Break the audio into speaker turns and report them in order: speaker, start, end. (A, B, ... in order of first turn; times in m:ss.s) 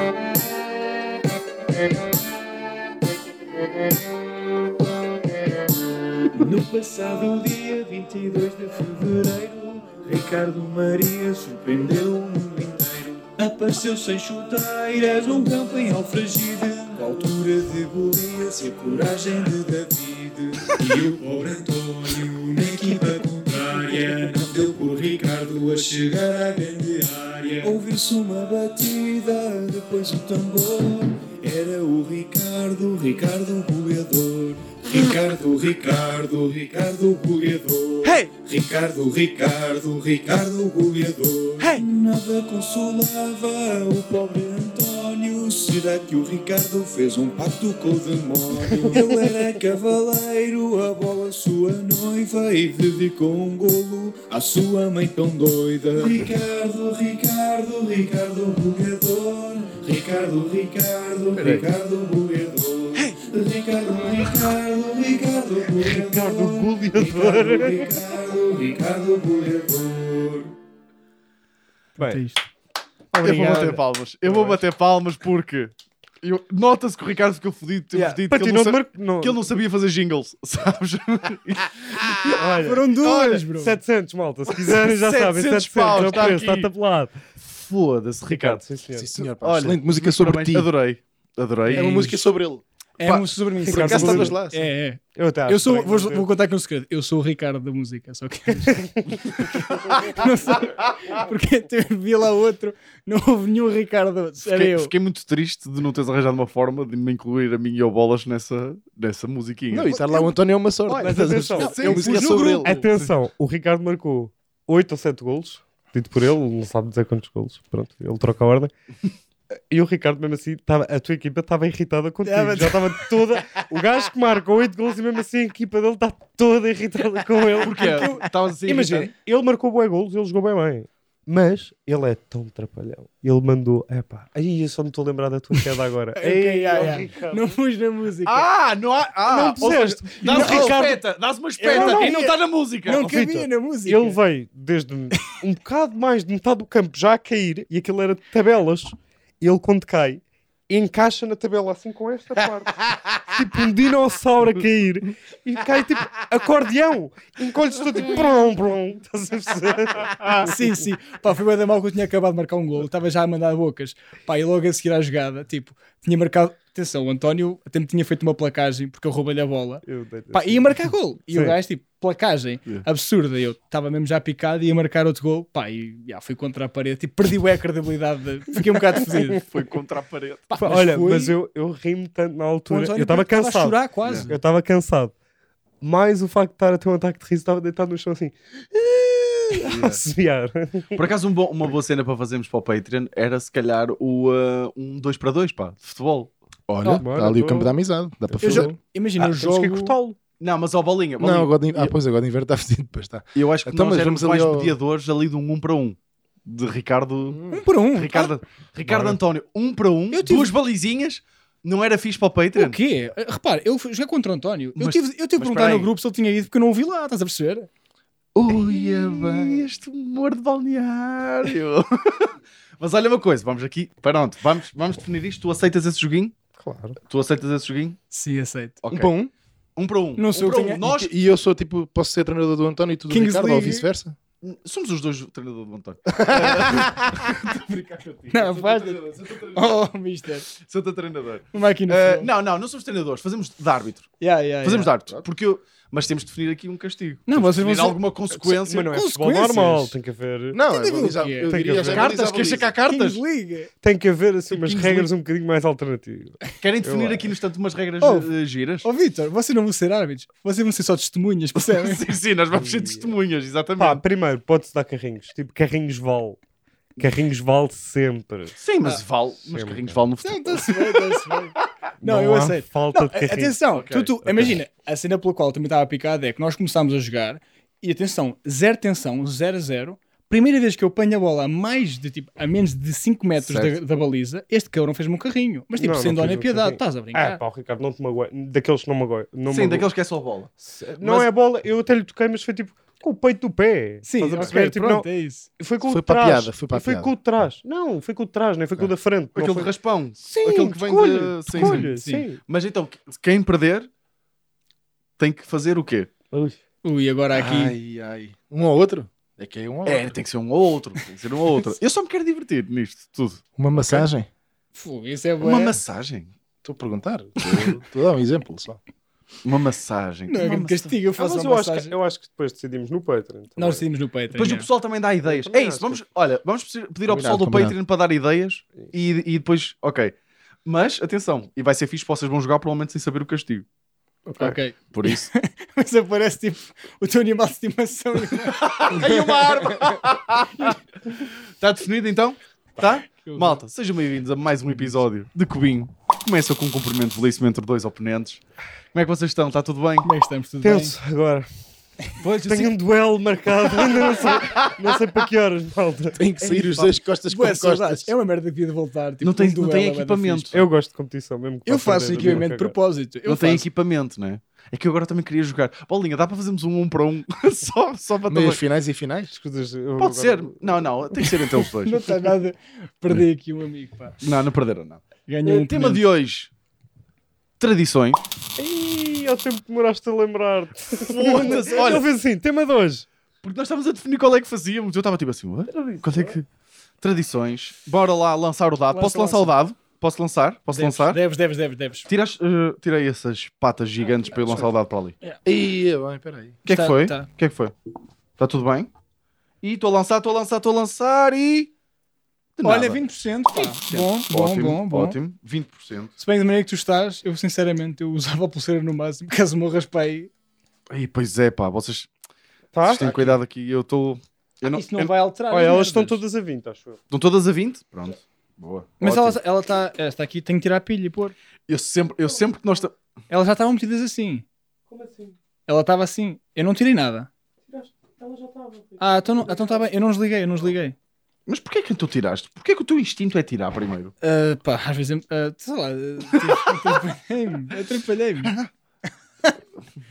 0:06.4-1:10.5 A
0:22.8-0:23.2 B
0:27.3-0:27.8 B
0:38.0-0:38.3 C
0:41.6-0:41.9 C
0:48.8-0:49.2 D
1:01.4-1:01.7 D
1:05.9-1:07.9 D
1:12.0-1:12.4 B
1:13.1-1:23.4 C
1:13.2-1:14.6 D
1:18.3-1:19.4 D
1:22.2-1:22.8 D
1:22.6-1:23.8 B
1:23.5-1:27.2 D
1:24.5-1:26.7 C
1:27.4-1:28.6 C
1:28.3-1:29.1 D
1:28.9-1:30.7 E
1:29.4-1:32.2 C
1:31.7-1:32.6 E
1:31.7-1:32.2 B
1:33.0-1:44.9 B
1:33.0-1:34.3 C
1:33.6-1:34.4 D
1:33.7-1:34.6 E
1:35.1-1:36.3 D
1:38.7-1:39.7 D
1:44.4-1:49.9 C
1:49.7-1:52.7 E
1:49.8-1:50.3 B
1:50.8-1:52.9 B
1:51.0-1:58.7 D
1:51.4-1:53.1 C
1:59.7-2:08.1 D
2:02.2-2:03.0 B
2:07.6-2:09.1 C
2:07.8-2:08.3 B
2:08.6-2:17.6 D
2:16.1-2:18.5 B
2:18.3-2:23.1 C
2:19.3-2:21.0 D
2:20.2-2:20.8 B
2:21.6-2:24.2 B
2:21.6-2:22.3 D
2:22.9-2:40.6 D
2:40.2-2:59.4 B
2:49.9-2:50.8 D
2:59.4-3:00.4 C
3:00.5-3:01.4 B
3:00.6-3:05.1 D
3:02.7-3:04.4 B
3:04.0-3:04.3 C
3:05.8-3:11.0 D
3:09.6-3:10.0 C
3:10.9-3:16.3 C
3:16.7-3:18.7 E
3:16.8-3:17.1 B
3:17.0-3:17.8 D
3:18.3-3:20.2 D
3:18.4-3:19.9 B
3:20.4-3:21.9 C
3:21.2-3:24.8 E
3:23.4-3:27.4 C
3:27.3-3:27.6 E
3:27.5-3:28.3 B
3:27.9-3:32.8 C
3:28.8-3:29.2 D
3:30.1-3:30.5 B
3:32.6-3:37.7 B
3:34.8-3:35.9 C
3:38.4-3:46.4 C
3:39.2-3:39.6 E
3:46.6-3:47.0 D
3:47.1-3:48.0 C
3:48.1-3:48.8 B
3:48.8-3:49.1 C
3:48.9-3:49.3 E
3:49.8-3:51.1 C
3:50.2-3:50.8 B
3:50.8-3:54.2 E
3:53.1-3:53.9 B
3:54.4-3:59.8 C
3:56.2-3:57.2 E
3:58.3-4:00.5 B
4:00.5-4:08.9 C
4:01.5-4:02.3 B
4:04.2-4:04.9 B
4:07.3-4:08.0 B
4:08.4-4:10.6 D
4:08.9-4:09.9 B
4:10.5-4:12.7 E
4:10.7-4:11.6 B
4:11.5-4:12.2 D
4:11.8-4:13.2 C
4:12.8-4:13.7 B
4:13.8-4:17.3 D
4:14.5-4:15.1 C
4:16.6-4:18.9 C
4:18.0-4:18.3 B
4:18.8-4:22.2 B
4:21.6-4:24.0 C
4:22.6-4:23.1 D
4:23.8-4:26.4 D
4:27.0-4:28.6 D
4:28.6-4:31.6 C
4:29.5-4:30.0 D
4:30.2-4:47.4 B
4:32.0-4:33.6 D
4:33.7-4:34.5 C
4:43.4-4:43.8 C
4:45.8-4:49.9 D
4:49.5-4:51.3 C
4:50.6-4:59.7 D
4:54.0-4:55.5 B
4:55.8-4:57.1 E
4:59.4-5:03.9 C
5:00.3-5:02.4 D
5:01.6-5:02.2 B
5:05.2-5:06.1 C
5:06.3-5:06.6 D
5:06.8-5:07.8 B
5:07.4-5:10.2 E
5:09.8-5:14.1 C
5:13.6-5:14.3 E
5:14.8-5:15.8 B
5:15.4-5:16.3 C
5:16.6-5:18.8 E
5:17.4-5:17.8 C
5:19.4-5:20.9 C
5:20.3-5:21.9 B
5:21.2-5:23.8 D
5:23.6-5:24.7 B
5:24.3-5:30.1 C
5:25.2-5:26.0 D
5:27.1-5:27.8 E
5:30.6-5:33.6 C
5:34.3-5:39.8 B
5:34.8-5:35.3 C
5:38.4-5:48.4 C
5:43.2-5:43.6 B
5:48.9-5:50.1 C
5:50.0-5:51.0 B
5:50.6-5:51.5 D
5:52.2-5:52.8 C
5:52.4-5:56.2 D
5:53.7-5:54.7 C
5:56.2-5:58.1 E
5:56.4-5:56.9 C
5:57.2-6:00.5 B
5:59.2-6:00.7 C
6:00.5-6:02.8 D
6:01.6-6:03.6 B
6:03.2-6:08.6 C
6:08.3-6:09.3 E
6:09.3-6:11.2 D
6:10.0-6:12.2 C
6:11.7-6:14.2 B
6:14.2-6:16.5 C
6:15.3-6:16.0 B
6:17.6-6:18.2 C
6:18.6-6:23.1 D
6:21.0-6:22.1 C
6:23.4-6:26.4 C
6:25.7-6:26.4 D
6:27.0-6:31.2 C
6:28.9-6:29.5 B
6:30.7-6:32.1 B
6:32.1-6:35.1 C
6:34.4-6:34.6 B
6:35.4-6:36.6 E
6:36.6-6:37.7 C
6:36.7-6:37.3 B
6:38.4-6:38.9 C
6:39.6-6:41.7 C
6:42.6-6:46.1 C
6:42.6-6:45.2 B
6:46.2-6:50.3 B
6:50.9-6:52.1 C
6:52.7-6:53.2 D
6:52.9-6:55.1 C
6:54.7-6:56.2 B
6:55.5-6:57.0 D
6:57.1-6:59.4 C
6:59.0-7:01.4 B
7:01.7-7:02.9 C
7:03.3-7:04.4 B
7:04.9-7:05.4 D
7:05.7-7:07.3 B
7:07.7-7:09.8 D
7:09.0-7:11.0 B
7:11.5-7:14.1 C
7:14.2-7:18.6 B
7:16.4-7:17.0 C